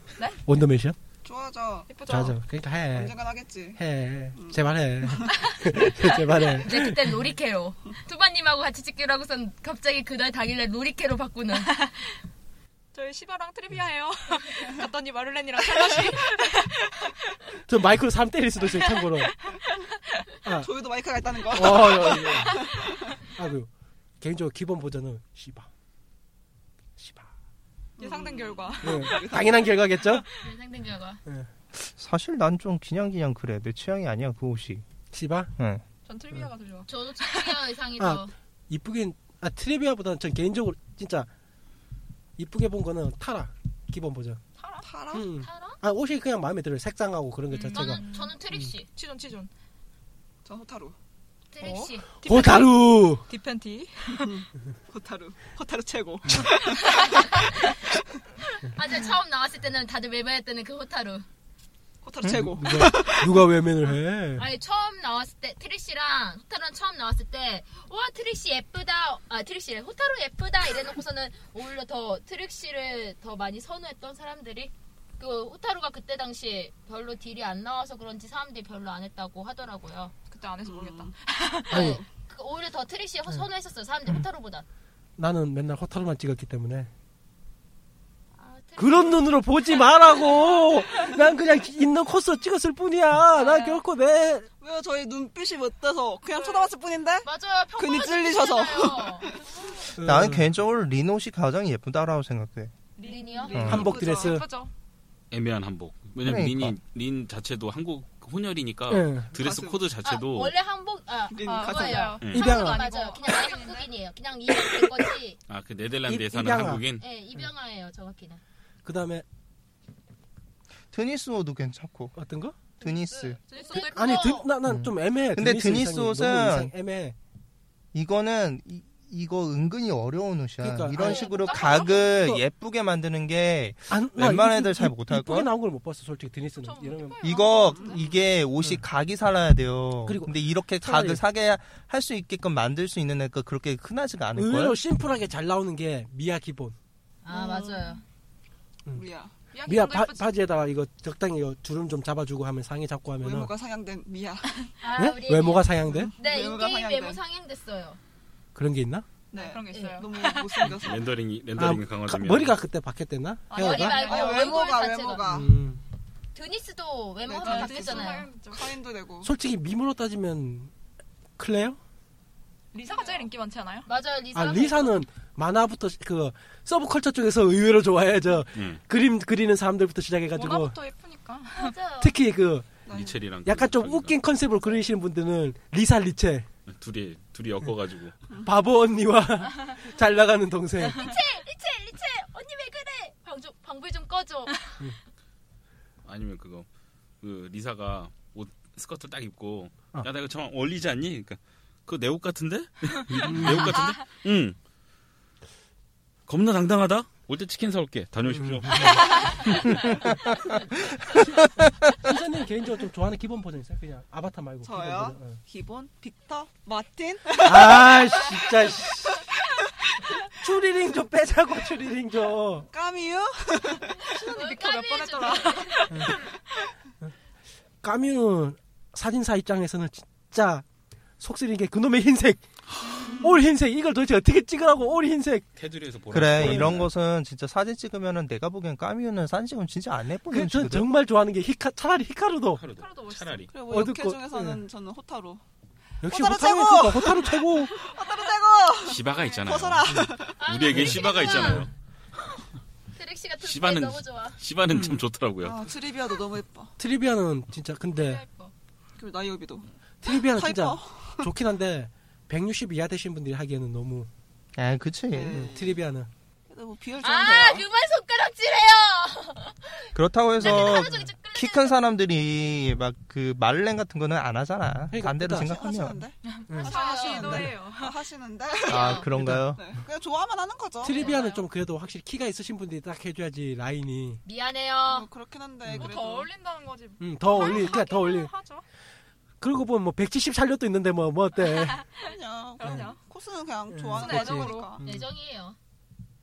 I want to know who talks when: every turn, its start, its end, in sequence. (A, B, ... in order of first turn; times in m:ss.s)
0:00.5-0:01.0 A
0:01.2-0:02.0 B
0:01.9-0:02.4 C
0:02.1-0:03.1 A
0:02.9-0:03.8 B
0:03.8-0:07.2 A
0:04.4-0:05.5 B
0:05.8-0:11.7 D
0:11.6-0:12.2 C
0:12.9-0:17.3 C
0:15.6-0:16.3 B
0:17.7-0:19.3 A
0:18.7-0:19.7 C
0:20.4-0:20.7 A
0:20.6-0:23.2 B
0:21.5-0:22.6 A
0:23.4-0:23.7 A
0:24.2-0:25.7 A
0:27.0-0:27.3 A
0:28.0-0:29.9 B
0:28.0-0:29.2 C
0:28.8-0:30.3 A
0:30.4-0:31.2 D
0:31.8-0:34.8 E
0:35.1-0:35.5 A
0:35.6-0:35.8 E
0:36.1-0:37.6 C
0:36.9-0:38.3 D
0:38.0-0:41.3 A
0:42.4-0:44.4 A
0:44.6-0:44.9 C
0:44.8-0:45.3 B
0:45.1-0:48.0 A
0:45.4-0:45.8 D
0:47.5-0:49.5 C
0:47.7-0:48.9 D
0:50.4-0:51.0 B
0:51.5-0:52.1 D
0:51.6-0:54.4 C
0:52.2-0:53.2 A
0:54.2-0:56.9 B
0:56.8-0:57.5 C
0:58.7-1:01.2 D
1:02.0-1:03.5 B
1:02.3-1:04.5 A
1:04.4-1:20.1 D
1:20.3-1:22.0 C
1:20.7-1:21.1 B
1:21.7-1:22.0 A
1:21.7-1:22.0 B
1:22.3-1:24.7 D
1:25.2-1:26.9 A
1:28.4-1:29.3 D
1:28.8-1:34.5 A
1:33.4-1:33.7 D
1:34.6-1:39.5 B
1:36.3-1:36.7 C
1:37.2-1:39.8 D
1:40.0-1:40.5 A
1:40.0-1:42.7 E
1:43.0-1:44.7 C
1:43.0-1:43.6 D
1:43.5-1:43.9 E
1:43.7-1:44.5 A
1:43.7-1:44.4 B
1:45.3-1:50.5 F
1:46.2-1:46.7 E
1:48.9-1:49.3 A
1:49.4-1:49.9 B
1:50.0-1:55.4 D
1:51.3-1:52.2 B
1:51.4-1:53.9 C
1:52.3-1:52.8 A
1:55.5-1:57.0 F
1:56.1-1:56.8 A
1:57.0-1:58.4 D
1:58.8-1:59.2 A
2:00.9-2:02.2 E
2:02.2-2:02.6 A
2:02.8-2:03.4 E
2:02.8-2:04.4 C
2:03.5-2:04.5 D
2:03.8-2:07.2 A
2:04.7-2:06.7 E
2:07.9-2:15.5 E
2:10.6-2:11.3 A
2:11.0-2:12.2 D
2:11.4-2:11.9 C
2:12.1-2:12.4 A
2:13.9-2:17.4 A
2:16.6-2:18.0 C
2:17.2-2:24.8 E
2:17.5-2:18.0 B
2:20.1-2:21.2 A
2:24.4-2:26.8 A
2:27.2-2:28.0 D
2:27.3-2:28.0 C
2:28.9-2:29.3 B
2:29.5-2:30.3 C
2:29.7-2:33.5 A
2:33.2-2:34.6 B
2:34.8-2:38.0 D
2:35.0-2:36.1 A
2:35.9-2:37.2 B
2:38.6-2:39.1 A
2:39.3-2:41.1 B
2:39.3-2:40.7 C
2:39.7-2:40.0 D
2:40.7-2:42.5 F
2:41.6-2:44.0 A
2:43.5-2:44.6 C
2:43.6-2:45.3 D
2:43.9-2:45.6 B
2:45.2-2:45.8 A
2:46.4-2:48.3 D
2:47.3-2:49.3 B
2:47.4-2:48.8 C
2:49.2-2:50.7 A
2:51.4-2:51.8 A
2:52.7-2:53.9 C
2:53.9-2:55.0 D
2:54.4-3:00.8 A
2:58.5-2:58.8 F
3:00.4-3:01.8 C
3:01.6-3:02.2 D
3:02.0-3:02.7 A
3:02.9-3:03.2 B
3:02.9-3:04.2 F
3:03.4-3:06.5 A
3:06.7-3:08.2 F
3:08.4-3:11.1 A
3:10.9-3:14.6 D
3:16.0-3:16.7 F
3:17.2-3:24.6 F
3:23.2-3:23.8 A
3:26.3-3:29.8 F
3:28.3-3:28.9 A
3:31.1-3:35.4 A
3:34.6-3:38.4 B
3:37.4-3:39.2 A
3:40.4-3:42.7 A
3:42.7-3:44.3 B
3:44.1-3:46.2 C
3:44.3-3:45.9 D
3:47.8-3:50.6 A
3:51.2-3:52.4 A
3:52.7-3:53.0 F
3:53.2-3:55.5 A
3:55.6-3:56.9 F
3:56.1-4:00.9 E
3:56.4-3:56.7 A
4:00.3-4:02.6 A
4:02.6-4:03.5 F
4:02.7-4:03.5 C
4:03.5-4:05.4 B
4:03.7-4:04.6 A
4:06.0-4:07.7 A
4:06.1-4:10.4 B
4:08.8-4:11.7 F
4:09.9-4:10.1 A
4:10.4-4:11.7 D
4:10.7-4:11.7 A
4:13.0-4:14.4 D
4:13.4-4:15.7 F
4:14.8-4:16.7 B
4:16.8-4:18.2 A
4:18.0-4:18.5 C
4:19.0-4:21.3 B
4:20.0-4:24.1 A
4:24.6-4:25.5 E
4:25.1-4:25.8 B
4:25.3-4:26.1 A
4:26.5-4:27.6 B
4:27.0-4:31.8 D
4:29.9-4:36.0 E
4:34.9-4:35.5 A
4:35.3-4:41.2 B
4:36.2-4:38.0 C
4:36.5-4:37.4 D
4:38.7-4:39.1 D
4:38.7-4:39.7 E
4:39.2-4:39.5 A
4:40.8-4:44.2 A
4:40.9-4:41.5 C
4:44.2-4:45.1 D
4:44.8-4:46.3 B
4:45.7-4:45.9 A
4:45.8-4:48.6 C
4:47.0-4:48.3 A
4:47.4-4:47.8 B
4:49.4-4:51.8 A
4:51.6-4:52.0 C
4:51.9-4:54.8 B
4:52.6-4:53.0 C
4:52.6-4:52.9 A
4:53.7-4:55.0 A
4:54.0-4:54.8 C
4:54.8-4:55.6 D